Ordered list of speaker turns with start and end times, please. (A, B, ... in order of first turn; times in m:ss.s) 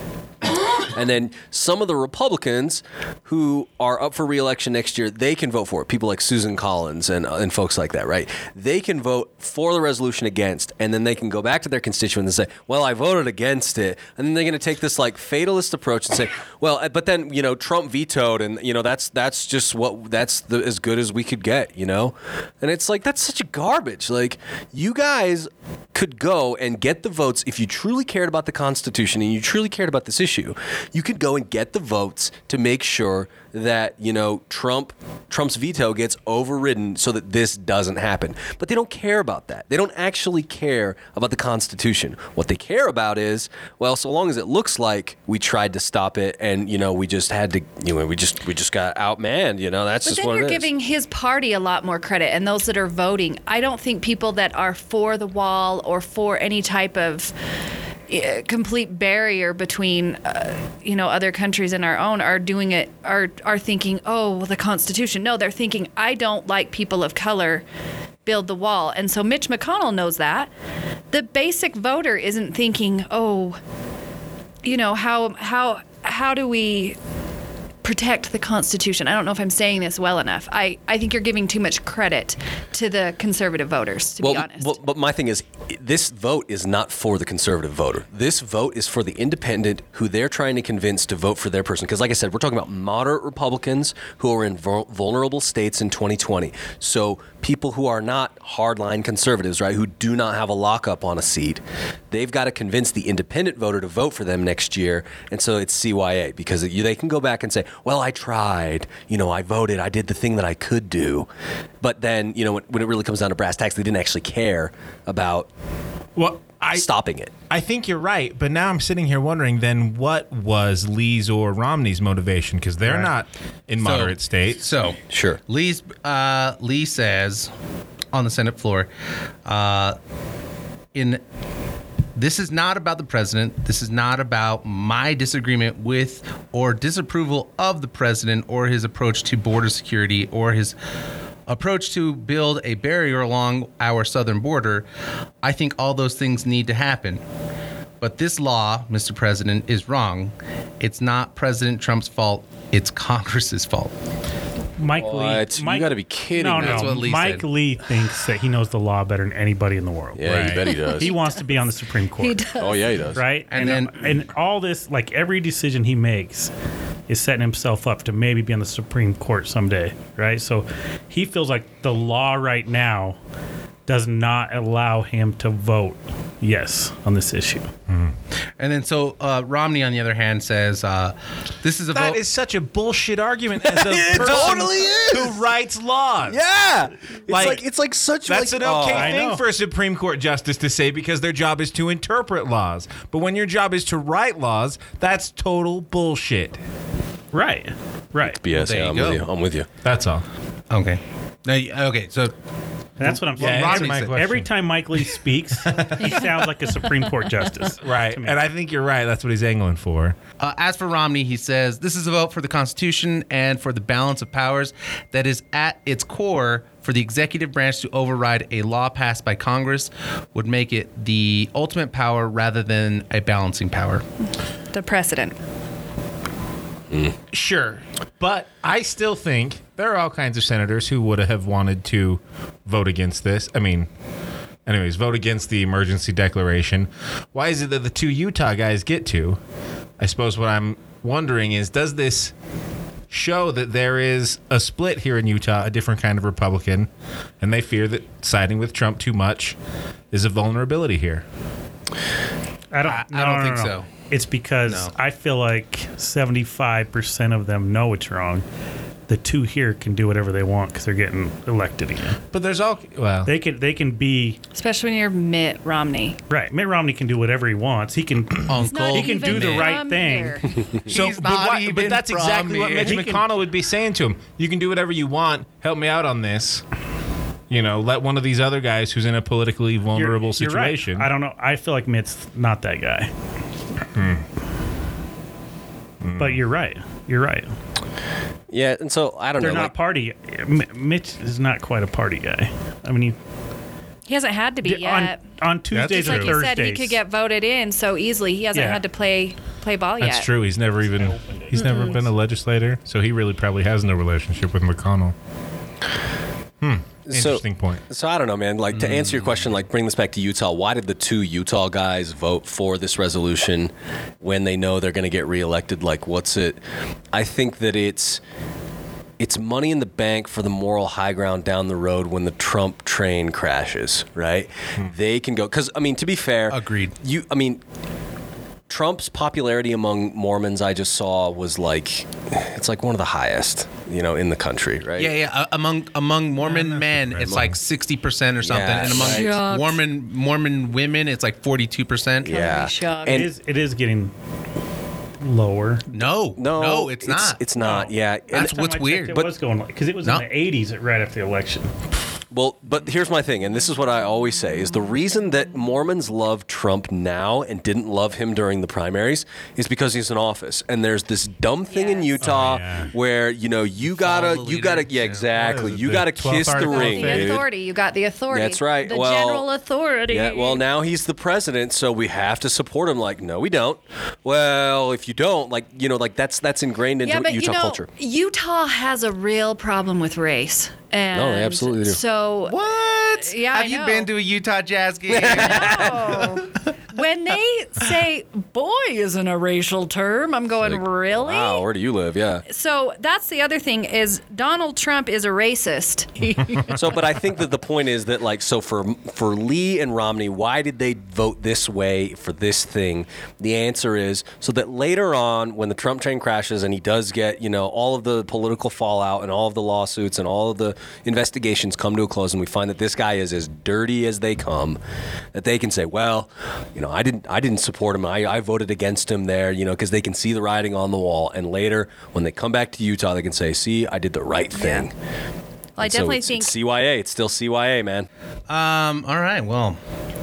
0:00.8-0:50.7 A
0:50.0-0:57.3 B
0:58.1-1:07.6 B
1:08.2-1:10.5 B
1:11.1-1:13.6 B
1:14.6-1:17.0 B
1:17.8-1:24.8 B
1:24.2-1:51.3 A
1:51.8-1:55.5 A
1:56.2-1:56.9 C
1:56.7-1:57.3 A
1:57.5-2:04.7 C
2:02.8-2:03.1 D
2:03.8-2:07.5 D
2:05.1-2:05.4 A
2:08.1-2:08.9 D
2:09.4-2:10.0 D
2:10.9-2:11.2 D
2:12.2-2:20.7 D
2:21.5-2:24.8 D
2:25.4-2:27.2 D
2:28.0-2:33.9 D
2:34.8-2:42.5 E
2:34.9-2:37.0 A
2:36.6-2:37.4 D
2:40.2-2:41.1 A
2:40.3-2:40.6 C
2:40.7-2:41.6 B
2:42.2-2:42.9 B
2:42.6-2:43.2 A
2:43.1-2:46.5 E
2:43.5-2:44.2 D
2:47.1-2:53.2 E
2:53.9-2:57.7 E
2:57.9-2:58.1 C
2:58.6-3:02.2 D
3:01.9-3:06.4 C
3:03.7-3:05.4 A
3:06.3-3:09.2 A
3:07.3-3:07.6 C
3:08.2-3:16.6 C
3:08.9-3:09.4 E
3:17.3-3:18.4 E
3:18.4-3:19.7 A
3:18.5-3:19.2 D
3:19.8-3:20.2 C
3:20.7-3:22.3 D
3:23.0-3:24.2 D
3:23.0-3:28.4 E
3:23.4-3:24.5 C
3:25.6-3:26.4 C
3:27.8-3:30.2 C
3:30.4-3:44.0 D
3:44.7-3:45.4 B
3:47.3-3:53.9 C
3:54.6-3:59.4 C
4:00.0-4:02.3 C
4:03.1-4:06.9 C
4:07.4-4:09.6 C
4:10.1-4:11.2 C
4:12.7-4:18.4 E
4:12.8-4:13.9 D
4:14.6-4:14.9 D
4:19.1-4:22.2 E
4:22.3-4:23.3 C
4:23.2-4:24.4 E
4:24.5-4:26.2 B
4:26.3-4:30.6 E
4:28.5-4:29.8 D
4:28.6-4:30.6 B
4:30.8-4:33.0 D
4:30.9-4:36.6 C
4:32.8-4:33.2 E
4:37.5-4:41.1 C
4:39.9-4:43.1 E
4:43.9-4:44.2 C
4:46.0-4:46.4 C
4:46.2-4:47.5 E
4:48.5-4:49.7 A
4:49.4-4:53.2 E
4:54.1-4:55.2 B
4:54.6-4:57.0 E
4:55.7-4:56.4 D
4:55.8-5:00.3 B
4:58.5-4:58.8 E
5:00.0-5:05.1 C
5:00.9-5:02.0 E
5:01.6-5:01.9 B
5:06.6-5:07.8 C
5:07.1-5:16.6 A
5:17.1-5:18.2 A
5:19.2-5:27.6 A
5:26.5-5:27.0 D
5:28.7-5:35.2 A
5:35.0-5:42.4 D
5:36.8-5:37.6 C
5:38.4-5:39.3 A
5:38.9-5:39.8 B
5:42.2-5:43.3 B
5:42.2-5:43.3 A
5:43.0-5:44.1 E
5:45.2-5:45.9 E
5:45.9-5:47.4 D
5:46.4-5:48.6 A
5:47.6-5:51.7 E
5:48.3-5:49.2 D
5:52.3-6:07.4 A
6:01.7-6:02.2 B
6:02.2-6:02.9 C
6:03.9-6:05.3 D
6:05.3-6:07.4 C
6:06.5-6:10.6 B
6:08.3-6:09.5 A
6:10.1-6:17.8 A
6:17.0-6:22.6 B
6:21.1-6:22.0 A
6:22.5-6:26.4 D
6:23.2-6:24.1 B
6:25.1-6:25.9 A
6:25.2-6:31.7 B
6:30.6-6:32.4 A
6:32.4-6:37.0 B
6:36.7-6:54.8 A
6:55.3-7:04.9 A
7:04.5-7:04.9 B
7:05.8-7:06.5 B
7:05.8-7:08.1 A
7:08.5-7:09.8 D